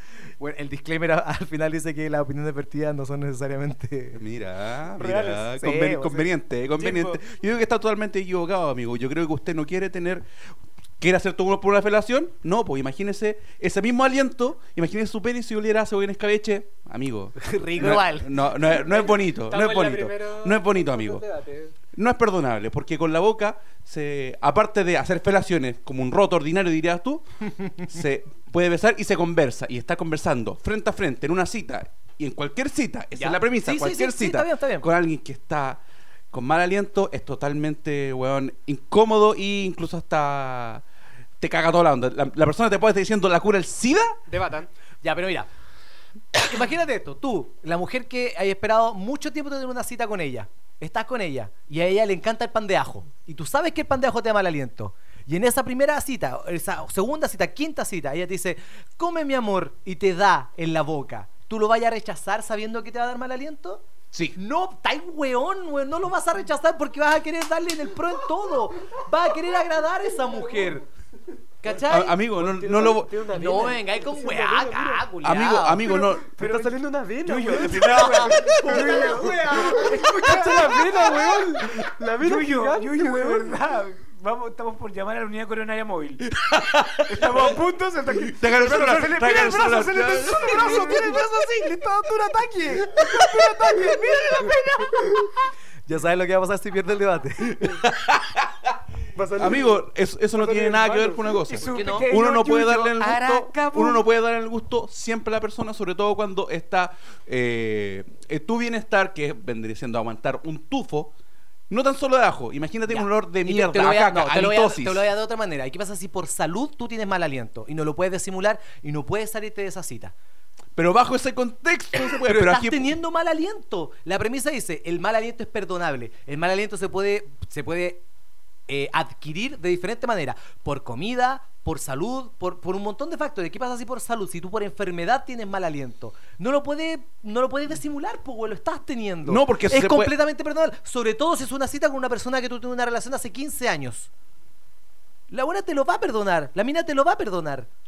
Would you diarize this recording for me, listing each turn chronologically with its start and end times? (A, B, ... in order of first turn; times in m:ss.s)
0:00.4-0:04.2 A
0:04.2-0:10.2 B
0:05.0-0:06.0 A
0:05.2-0:06.2 C
0:06.8-0:07.2 D
0:11.0-0:21.2 B
0:17.4-0:18.3 A
0:18.6-0:21.7 D
0:21.9-0:35.8 B
0:33.2-0:34.9 A
0:36.3-0:40.8 B
0:41.4-0:44.2 B
0:44.3-0:44.7 D
0:45.0-0:45.5 A
0:46.3-1:10.8 A
1:11.6-1:12.2 A
1:11.9-1:13.1 B
1:12.2-1:15.1 D
1:13.3-1:15.9 A
1:15.2-1:16.3 B
1:15.8-1:23.5 D
1:16.4-1:26.3 C
1:18.4-1:20.0 A
1:26.4-1:27.5 B
1:27.0-1:35.1 C
1:28.1-1:31.1 B
1:35.8-1:37.9 A
1:37.6-1:38.5 B
1:39.2-1:39.8 D
1:39.4-1:51.1 B
1:40.3-1:41.2 D
1:41.4-1:44.0 C
1:41.6-1:42.1 A
1:51.7-1:55.1 B
1:52.9-2:00.1 A
2:00.8-2:02.9 B
2:02.1-2:08.0 A
2:08.7-2:24.1 A
2:19.2-2:20.1 B
2:25.3-2:27.7 A